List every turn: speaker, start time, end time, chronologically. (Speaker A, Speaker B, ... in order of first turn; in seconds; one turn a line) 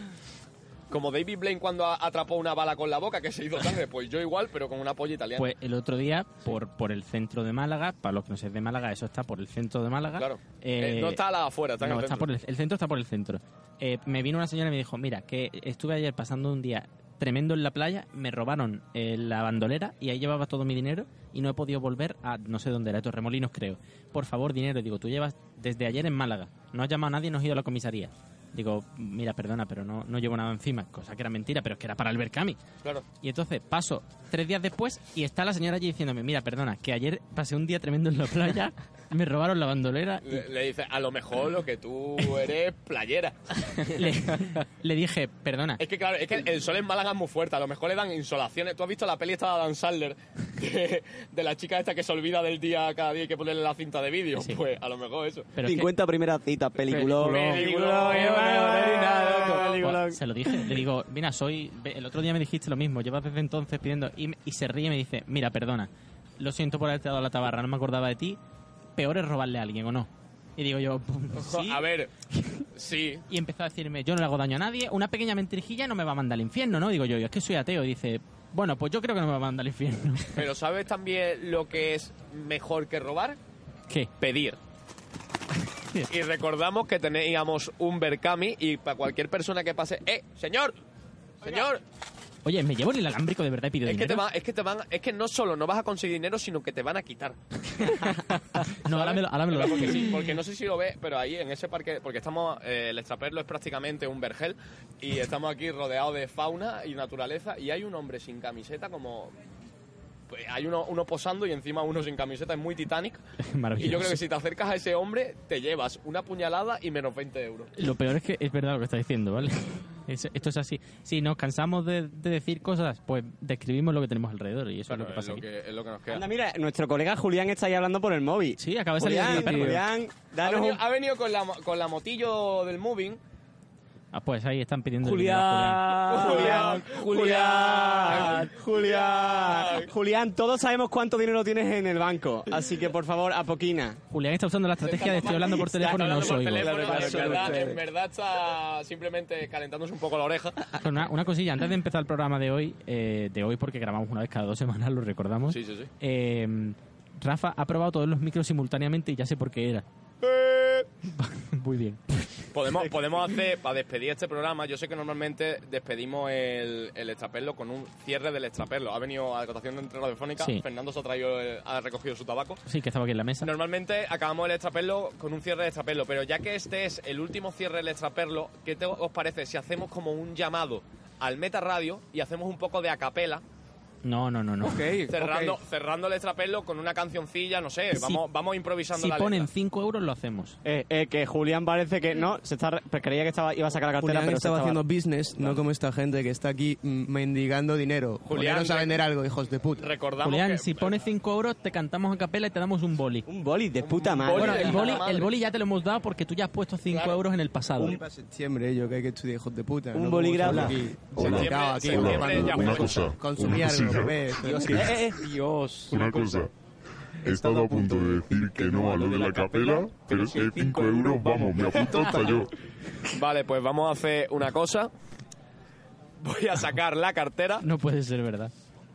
Speaker A: 0.9-5.5
Speaker B: 5.4-11.2
Speaker A: 10.2-12.3
Speaker B: 11.8-32.6
Speaker B: 33.2-40.4
Speaker A: 40.2-43.9
Speaker B: 43.9-45.8
Speaker A: 45.8-55.5
Speaker B: 55.6-55.9
Speaker C: 55.6-60.5
Speaker D: 56.9-59.6
Speaker A: 57.2-59.8
Speaker B: 59.8-68.4
Speaker B: 69.0-72.7
Speaker A: 71.3-72.1
Speaker A: 72.7-73.2
Speaker B: 73.3-80.4
Speaker A: 80.3-83.4
Speaker A: 84.2-84.6
Speaker A: 86.1-90.8
Speaker A: 91.4-91.8
Speaker B: 92.5-94.2
Speaker A: 93.9-97.4
Speaker B: 97.8-100.2
Speaker A: 98.9-109.3
Speaker A: 110.3-113.2
Speaker B: 113.4-114.2
Speaker A: 113.8-117.7
Speaker B: 117.8-125.4
Speaker A: 124.9-126.2
Speaker C: 126.1-130.8
Speaker B: 128.6-129.8
Speaker D: 129.2-129.8
Speaker A: 130.4-133.2
Speaker B: 134.1-136.1
Speaker C: 135.0-144.0
Speaker A: 136.1-139.9
Speaker B: 144.1-146.7
Speaker A: 144.8-150.7
Speaker C: 145.6-147.8
Speaker D: 146.7-147.8
Speaker B: 150.8-159.8
Speaker A: 155.5-155.9
Speaker A: 160.2-160.9
Speaker B: 161.1-162.0
Speaker A: 162.5-172.6
Speaker B: 170.4-170.6
Speaker B: 172.7-173.5
Speaker A: 173.4-183.4
Speaker B: 184.0-184.9
Speaker D: 184.6-185.6
Speaker A: 185.1-189.5
Speaker B: 187.9-188.2
Speaker B: 188.9-190.6
Speaker C: 190.6-194.8
Speaker E: 194.0-199.9
Speaker A: 198.2-198.9
Speaker A: 199.8-201.0
Speaker B: 200.2-203.3
Speaker C: 203.3-205.0
Speaker A: 203.8-205.3
Speaker B: 204.3-208.0
Speaker A: 206.9-207.2
Speaker E: 207.8-215.0
Speaker C: 209.9-210.8
Speaker F: 211.1-214.3
Speaker A: 211.2-213.1
Speaker C: 214.4-215.2
Speaker D: 214.6-216.4
Speaker F: 215.9-216.5
Speaker F: 217.2-222.5
Speaker E: 217.3-222.2
Speaker D: 218.7-220.8
Speaker A: 223.1-224.9
Speaker A: 226.2-227.6
Speaker B: 227.6-228.5